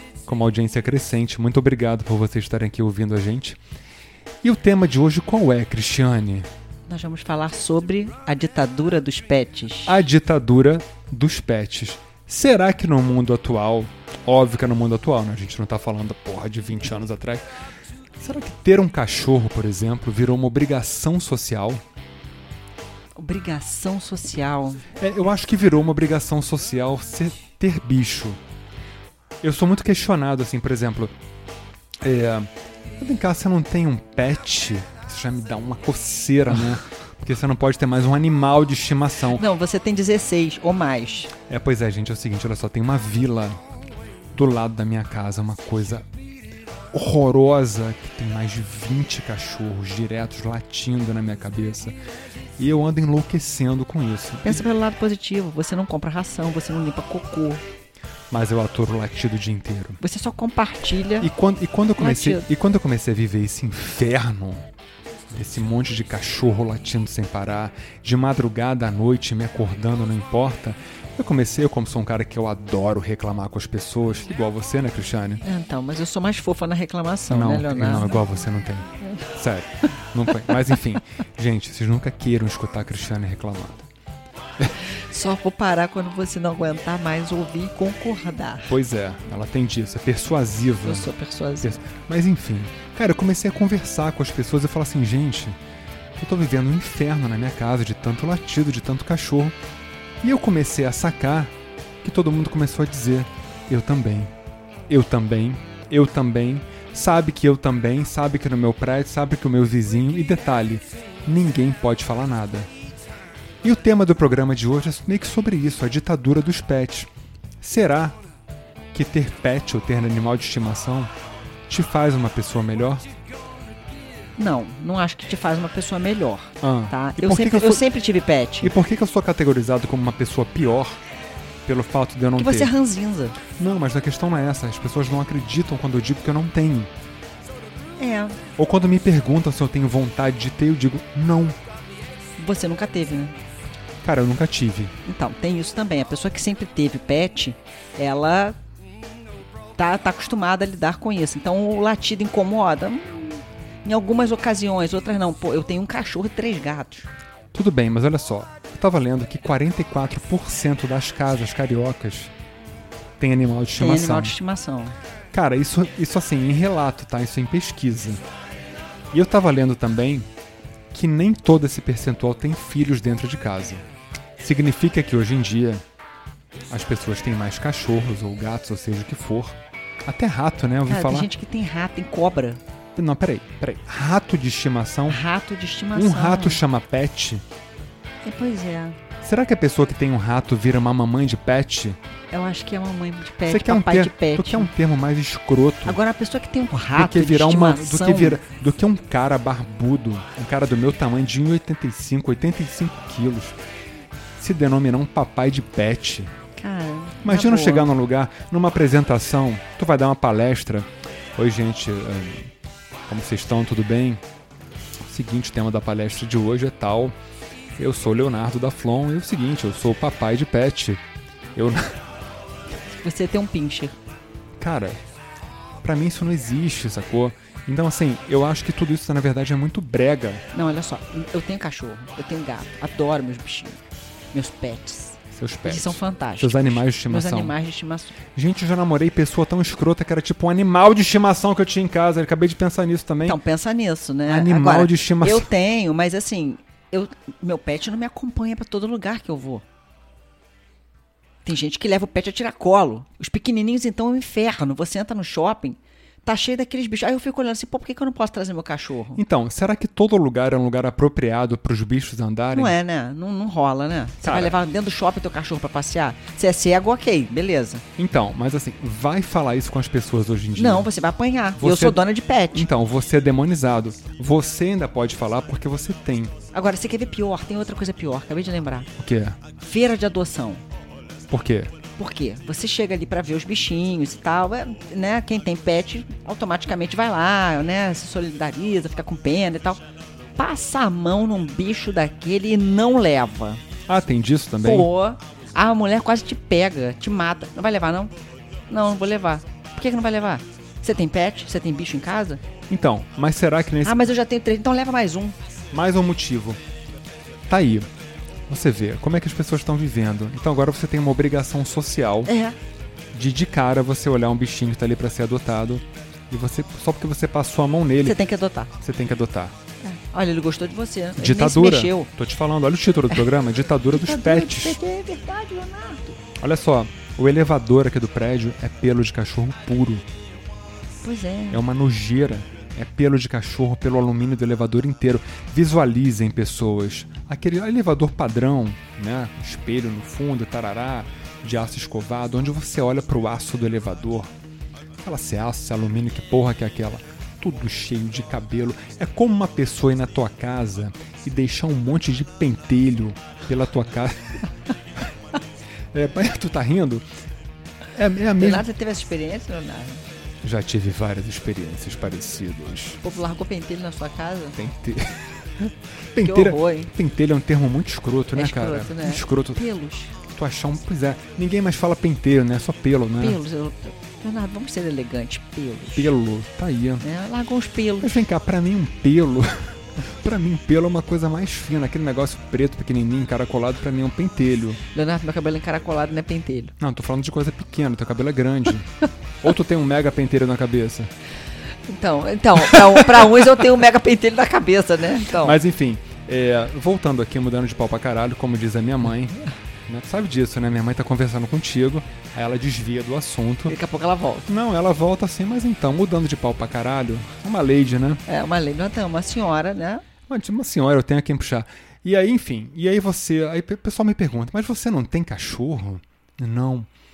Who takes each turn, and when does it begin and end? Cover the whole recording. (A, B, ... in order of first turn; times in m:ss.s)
0:00.2-0:03.6 A
0:04.4-0:06.5 A
0:06.9-0:10.0 B
0:09.8-0:17.5 A
0:18.2-0:21.8 A
0:23.2-0:24.8 B
0:25.0-0:28.4 A
0:29.4-0:31.1 A
0:32.0-0:39.4 A
0:39.3-0:41.3 B
0:41.5-0:43.6 A
0:44.3-0:46.1 A
0:46.9-0:52.0 A
0:52.6-0:54.6 A
0:54.4-0:57.6 B
0:58.3-1:00.0 A
1:00.0-1:01.3 B
1:01.2-1:04.6 A
1:02.0-1:02.5 B
1:05.3-1:15.4 A
1:15.4-1:18.2 B
1:17.3-1:23.9 A
1:24.8-1:28.7 B
1:28.7-1:35.6 A
1:30.8-1:31.8 B
1:36.2-1:39.6 A
1:40.2-1:44.3 A
1:44.9-1:52.7 A
1:53.6-1:57.1 A
1:57.6-1:58.2 A
1:58.9-2:01.1 A
2:01.7-2:03.0 A
2:04.4-2:08.7 B
2:06.6-2:07.8 A
2:08.6-2:11.0 A
2:11.6-2:12.7 A
2:12.4-2:13.4 B
2:13.6-2:16.9 A
2:18.0-2:18.4 B
2:18.6-2:21.6 A
2:22.4-2:23.4 B
2:24.0-2:24.9 A
2:25.0-2:28.6 B
2:29.8-2:37.1 B
2:37.5-2:42.3 A
2:43.2-2:44.3 A
2:43.8-2:45.0 B
2:45.3-2:48.2 A
2:49.1-2:50.3 A
2:50.9-2:53.8 A
2:54.4-2:55.8 A
2:56.7-3:01.3 A
3:00.9-3:02.6 B
3:03.0-3:05.2 A
3:05.1-3:06.6 B
3:05.9-3:07.4 A
3:08.2-3:09.0 B
3:09.2-3:12.0 A
3:12.3-3:14.7 B
3:13.4-3:16.0 A
3:15.8-3:18.4 B
3:16.9-3:23.6 A
3:24.4-3:26.3 A
3:26.6-3:27.9 B
3:27.2-3:32.5 A
3:33.1-3:34.2 A
3:35.0-3:37.2 A
3:37.8-3:41.0 A
3:41.5-3:42.0 A
3:42.9-3:44.0 B
3:44.6-3:45.0 A
3:45.8-3:50.4 A
3:50.5-3:53.8 B
3:54.3-3:58.2 B
3:55.3-3:57.6 A
3:58.3-4:03.4 A
4:03.2-4:09.6 B
4:04.2-4:05.5 A
4:11.4-4:19.2 B
4:19.1-4:22.8 A
4:22.5-4:27.8 B
4:24.2-4:24.5 A
4:28.0-4:30.9 A
4:30.6-4:32.6 B
4:31.6-4:32.0 A
4:32.5-4:36.3 A
4:36.5-4:38.9 B
4:39.0-4:39.4 A
4:39.6-4:40.6 B
4:41.3-4:41.7 A
4:42.0-4:49.8 B
4:50.4-4:53.6 B
4:53.9-4:54.9 A
4:54.6-4:58.1 B
4:58.7-5:02.4 B
5:02.7-5:04.1 A
5:03.8-5:05.4 B
5:05.7-5:06.6 A
5:07.5-5:07.9 A
5:08.5-5:12.3 A
5:12.2-5:12.6 B
5:13.1-5:18.2 A
5:18.0-5:18.7 B
5:18.8-5:19.5 A
5:19.8-5:22.1 B
5:21.2-5:24.8 A
5:23.9-5:26.2 B
5:26.4-5:30.0 A
5:31.0-5:31.6 B
5:31.5-5:44.3 A
5:45.0-5:54.5 A
5:55.9-5:57.0 A
5:57.9-5:58.7 A
5:58.4-6:00.0 B
6:00.4-6:03.0 A
6:03.0-6:04.6 B
6:04.6-6:09.6 A
6:06.2-6:06.9 B
6:08.3-6:10.1 B
6:10.3-6:13.4 A
6:13.2-6:16.1 B
6:15.9-6:17.0 A
6:17.0-6:18.2 B
6:18.0-6:24.8 A
6:24.9-6:26.7 B
6:26.8-6:28.9 A
6:29.4-6:31.1 A
6:31.9-6:35.6 B
6:35.3-6:43.7 A
6:43.7-6:44.5 B
6:44.5-6:48.2 A
6:48.3-6:50.0 B
6:50.3-6:56.9 A